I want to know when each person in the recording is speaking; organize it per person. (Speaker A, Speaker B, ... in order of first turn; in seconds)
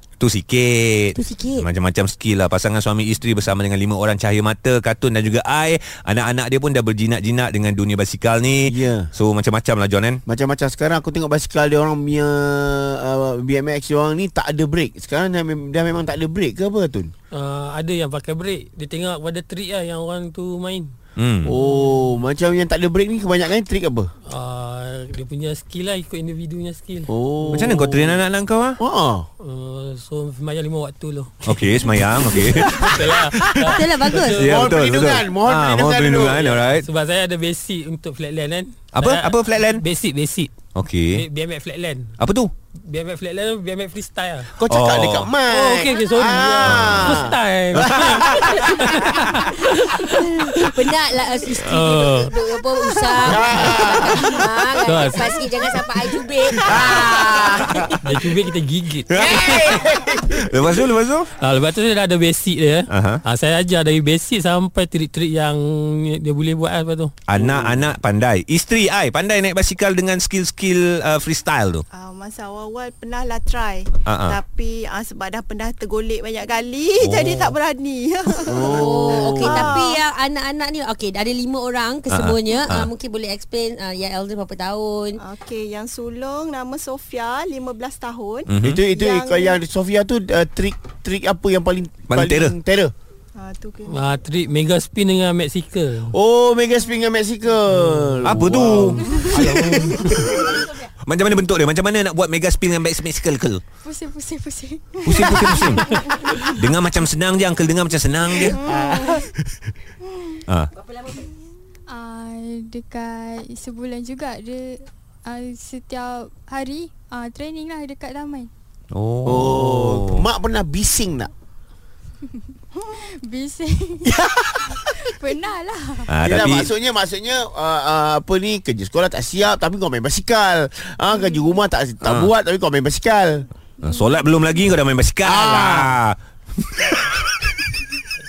Speaker A: 0.2-10.2, 21.2-21.5, 27.5-28.8, 31.4-36.9, 38.9-39.8, 40.8-41.2, 42.2-42.5, 44.7-45.3, 46.6-48.6, 59.1-61.3, 62.9-63.2, 67.3-71.8, 74.1-74.4, 77.0-77.5, 82.1-82.9, 88.5-88.8, 92.1-92.5, 98.2-103.6, 105.0-109.3, 110.5-110.7, 118.9-120.2, 126.1-126.7, 132.0-132.3, 133.8-137.4
Speaker B: 1.1-1.7, 33.6-34.4, 49.9-57.9, 78.7-85.2
Speaker C: 8.7-9.1, 10.3-17.1, 21.4-24.1, 27.1-28.2, 28.8-29.3, 32.5-33.1, 34.4-36.6, 44.6-49.7, 53.2-54.7, 56.5-58.3, 59.1-60.9, 67.4-67.8, 78.5-79.8, 88.6-92.9, 96.1-100.7, 119.2-121.3, 124.0-125.1, 126.2-133.5, 135.2-136.0
Speaker D: 17.3-20.9, 21.6-22.1, 24.3-27.7, 29.4-31.8, 32.6-34.8, 36.6-40.5, 41.1-42.2, 42.8-44.5, 45.5-50.8, 51.6-52.3, 53.4-53.8, 54.8-55.4, 58.0-59.7, 61.4-67.1, 93.9-96.2, 97.8-100.2
Speaker E: 71.9-80.0, 85.2-89.6, 93.4-94.0, 108.5-109.2
Speaker F: 103.8-106.0, 111.9-118.5, 123.0-124.2, 124.8-126.1, 133.9-134.3